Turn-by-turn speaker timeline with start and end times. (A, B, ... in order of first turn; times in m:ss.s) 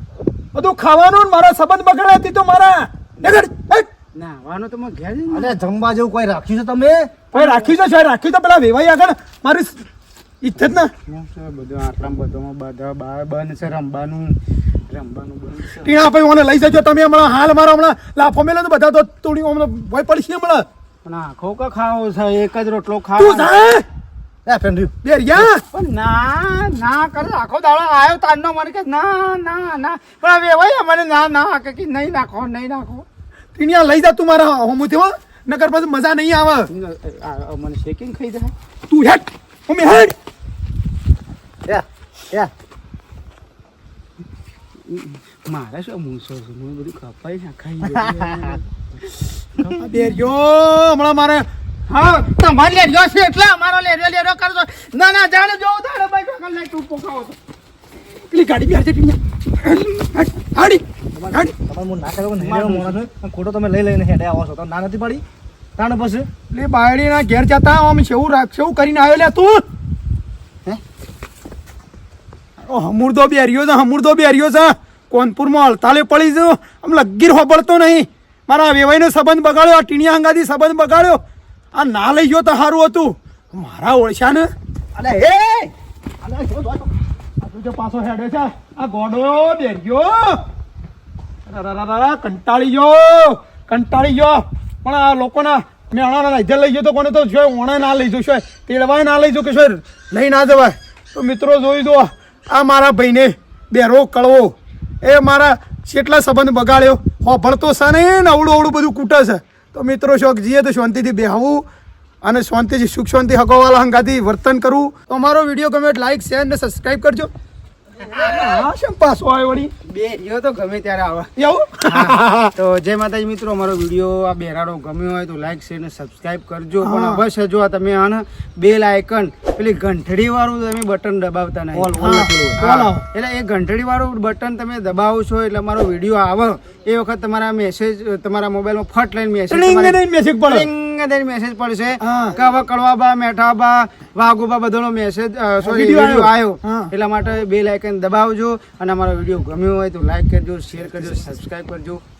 0:00.5-0:03.9 A
0:04.1-0:05.6 B
0:05.3-0:07.3 C
0:07.3-0:09.8 A
0:10.4-0:10.9 A
0:11.1-0:14.4 B
0:14.9-0:15.9 B
0:15.8-0:20.6 A
0:21.0-0:23.6 B
0:23.2-0:23.8 A
0:24.4-0:24.9 C
0:25.0-0:25.6 A
0:25.7-0:33.0 B
0:33.6-0:36.7 A
0:36.7-0:38.5 B
0:38.9-0:40.1 A
0:41.6-0:42.5 C
0:44.9-0:50.2 B
0:49.7-0:51.4 A
0:51.9-0:57.4 B
0:58.3-1:01.5 A
1:01.1-1:05.2 C
1:02.4-1:03.0 B
1:05.8-1:06.3 C
1:06.5-1:09.6 A
1:12.6-1:21.2 A
1:21.7-1:24.5 A
1:24.9-1:25.7 C
1:26.2-1:26.9 C
1:27.4-1:30.4 A
1:31.5-1:51.6 A
1:52.2-1:57.3 A
1:58.0-1:59.7 A
1:58.2-1:58.6 B
1:59.9-2:01.3 B
2:01.4-2:02.5 A
2:01.9-2:12.0 B
2:06.8-2:07.2 A
2:11.7-2:12.6 C
2:11.9-2:13.0 A
2:12.6-2:32.0 B
2:19.5-2:20.7 A
2:22.0-2:22.4 A
2:25.6-2:26.9 A